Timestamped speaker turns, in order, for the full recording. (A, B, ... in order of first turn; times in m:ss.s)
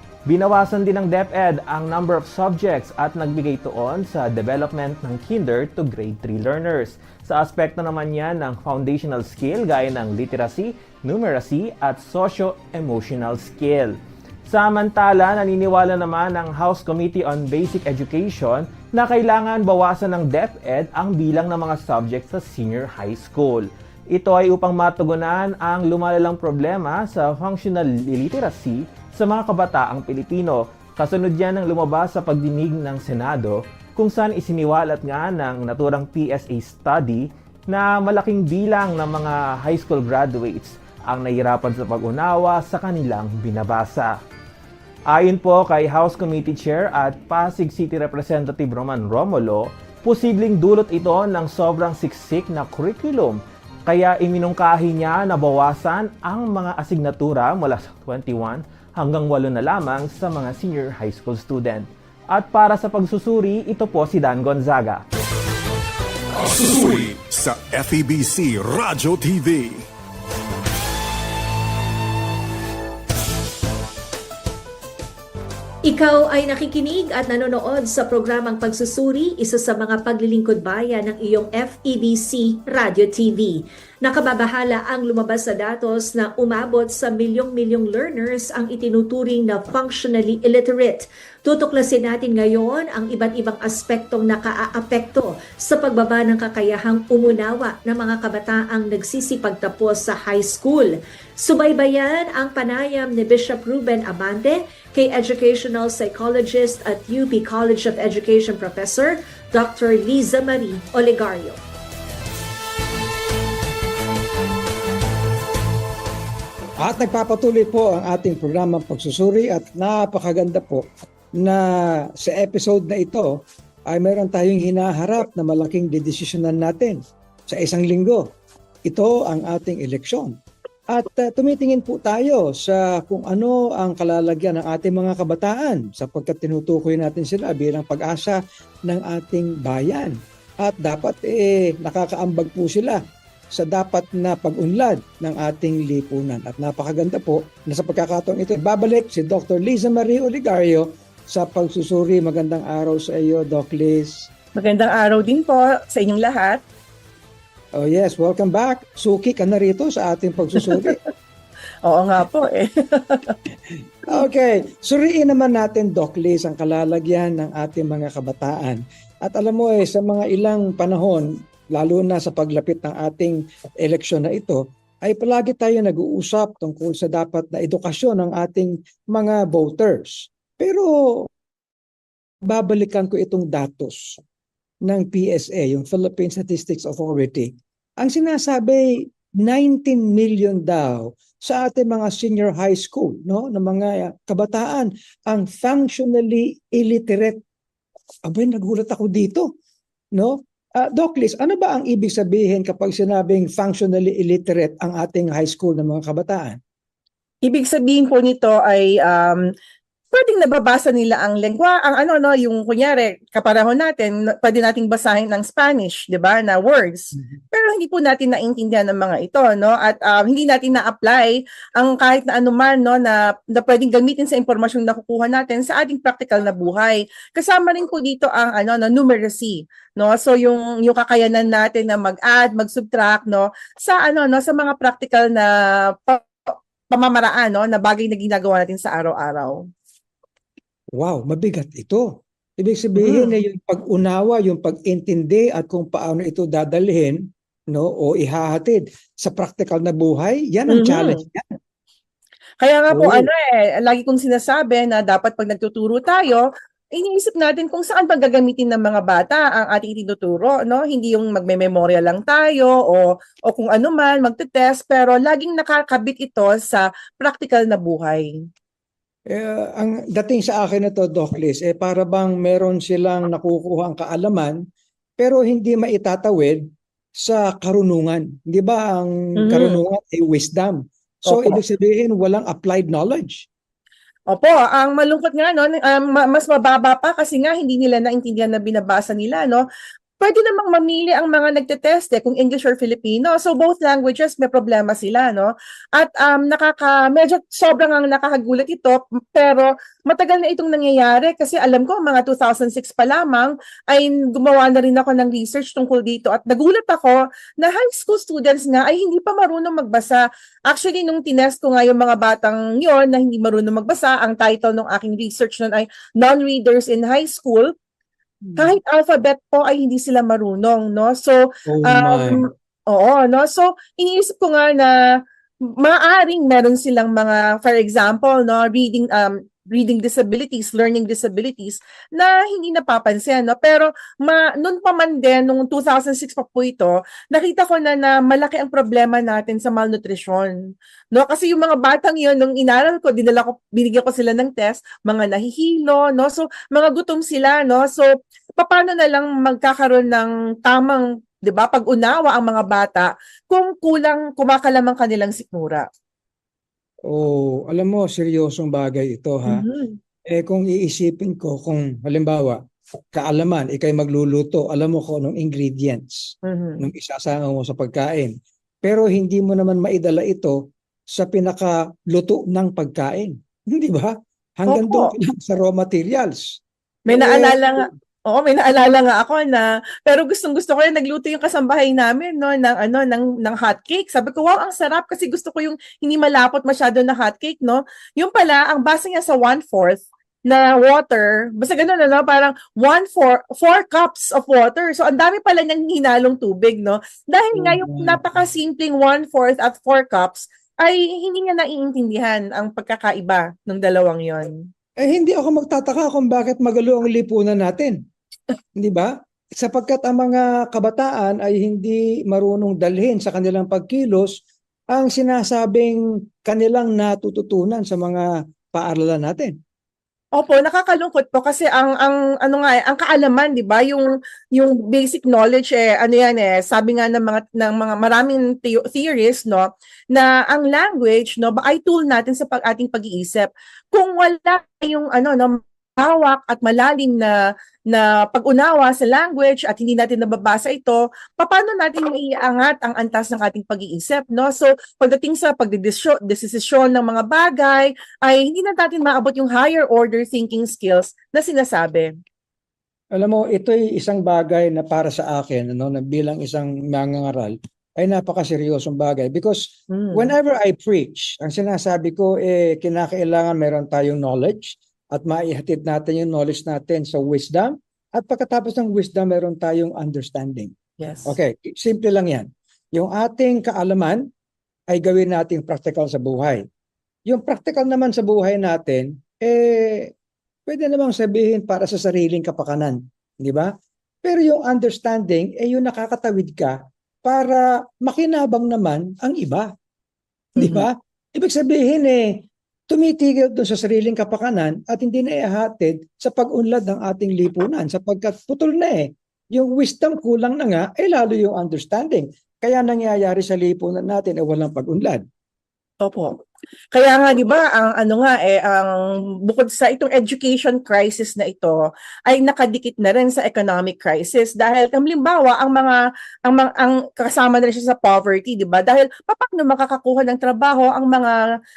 0:00.3-0:44.1 A
0:45.1-1:05.0 A
1:06.3-1:09.8 B
1:15.8-1:51.6 C
1:56.8-2:00.8 D
2:01.4-2:03.3 D
2:03.9-2:08.3 D
2:08.8-2:10.3 D
2:10.9-2:23.0 D
2:23.5-2:34.3 D
2:34.6-2:36.6 E
2:37.8-2:41.0 D
2:40.6-2:40.9 E
2:41.8-2:43.4 E
2:43.7-3:01.3 D
3:02.4-3:04.2 D
3:04.9-3:17.4 D
3:18.2-3:19.5 D
3:20.1-3:26.6 D
3:27.4-3:29.5 E
3:30.1-3:59.6 E
4:01.0-4:11.5 D
4:03.0-4:03.4 E
4:10.7-4:11.2 E
4:12.6-4:28.4 E
4:12.9-4:13.3 D
4:29.3-4:34.6 D
4:35.2-4:36.6 D
4:37.2-4:43.4 D
4:39.4-4:39.8 E
4:41.3-4:41.6 E
4:44.3-4:49.6 E
4:50.2-5:17.7 E
5:18.4-5:18.8 D
5:18.6-5:40.6 E
5:21.7-5:22.4 D
5:41.1-5:55.8 E
5:57.1-5:59.6 D
5:59.5-6:00.0 E
6:00.3-6:02.6 D
6:03.1-6:10.6 D
6:06.4-6:06.8 E
6:11.1-6:17.8 D
6:14.7-6:15.1 E
6:17.1-6:44.5 E
6:37.5-6:38.2 D
6:45.0-6:48.0 D
6:48.8-6:54.4 D
6:54.9-6:59.5 D
7:00.4-7:17.4 E
7:17.9-7:32.1 E
7:33.1-7:50.7 D
7:39.9-7:40.3 E
7:51.0-7:51.3 E
7:51.2-7:54.3 D
7:54.9-7:56.6 D
7:57.3-8:00.1 D
8:00.7-8:03.7 D
8:04.2-8:09.7 D
8:10.6-8:25.2 D
8:10.6-8:10.8 E
8:26.0-8:26.4 E
8:26.9-8:41.4 E